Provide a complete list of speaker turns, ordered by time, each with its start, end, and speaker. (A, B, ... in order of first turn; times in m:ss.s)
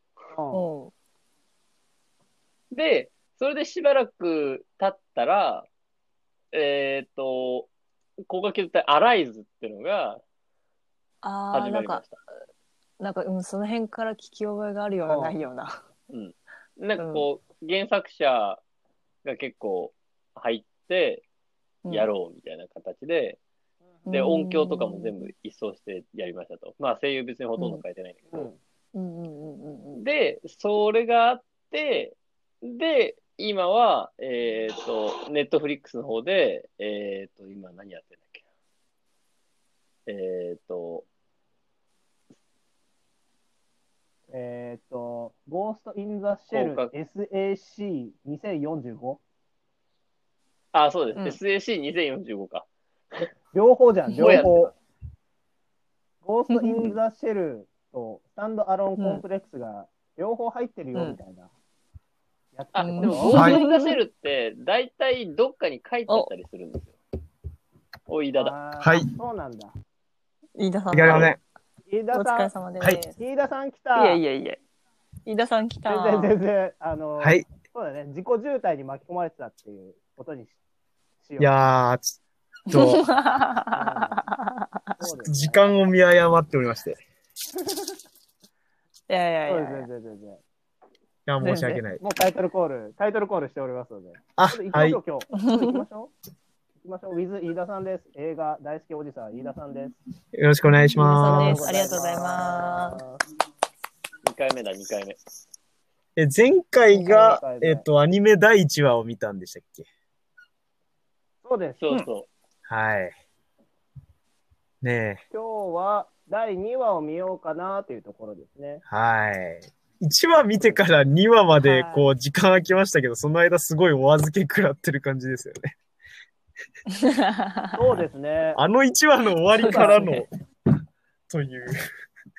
0:00.3-0:00.6 A
0:00.5-0:00.9 B
0:02.7-0:05.7 C
0:06.5-0:07.7 C
0:08.3-0:10.2 C
0:11.2-0:12.0 B
0:11.5-0:12.2 C
0:13.0-0:15.8 B
0:15.0-0:15.4 A
0:16.1-0:18.6 C
0:17.0-0:17.2 B
0:19.2-0:21.2 C
0:21.9-0:23.4 C
0:24.1-0:25.2 B
0:24.1-0:28.5 C
0:27.6-0:27.8 B
0:28.3-0:28.6 A
0:28.9-0:30.0 B
0:30.0-0:38.4 C
0:40.1-0:41.1 C
0:44.3-0:49.2 A
0:46.5-0:46.9 C
0:50.7-0:53.3 C
0:53.5-0:54.7 A
0:54.1-0:54.4 B
0:54.1-0:54.7 C
0:56.2-1:01.5 A
0:56.5-0:57.0 B
0:59.0-0:59.2 B
1:02.5-1:03.4 A
1:02.7-1:06.9 C
1:02.8-1:03.9 B
1:08.1-1:08.6 C
1:08.3-1:09.7 A
1:08.8-1:09.1 D
1:10.6-1:11.3 B
1:10.9-1:11.4 D
1:11.9-1:12.5 A
1:12.1-1:13.2 B
1:13.1-1:14.2 A
1:13.9-1:14.6 B
1:15.2-1:16.3 B
1:15.9-1:20.6 A
1:17.2-1:17.5 D
1:21.2-1:21.8 A
1:21.4-1:22.1 D
1:22.7-1:23.0 D
1:22.7-1:25.0 B
1:23.7-1:24.2 A
1:25.0-1:25.8 A
1:25.2-1:27.0 D
1:29.1-1:29.9 B
1:29.4-1:30.4 A
1:31.2-1:32.0 D
1:31.4-1:31.8 B
1:32.0-1:36.1 A
1:34.4-1:35.0 D
1:35.4-1:35.8 B
1:36.8-1:40.0 A
1:40.3-1:41.8 D
1:40.9-1:43.0 B
1:41.1-1:43.2 A
1:44.2-1:45.2 C
1:46.2-1:49.9 D
1:46.9-1:47.8 A
1:51.4-1:51.8 A
1:51.8-1:52.3 C
1:52.7-1:53.1 D
1:54.8-1:55.2 D
1:55.3-1:58.8 A
1:58.9-2:05.7 D
2:01.6-2:02.1 B
2:06.9-2:07.8 B
2:07.7-2:08.6 A
2:08.6-2:10.3 D
2:09.6-2:10.2 B
2:11.3-2:11.8 D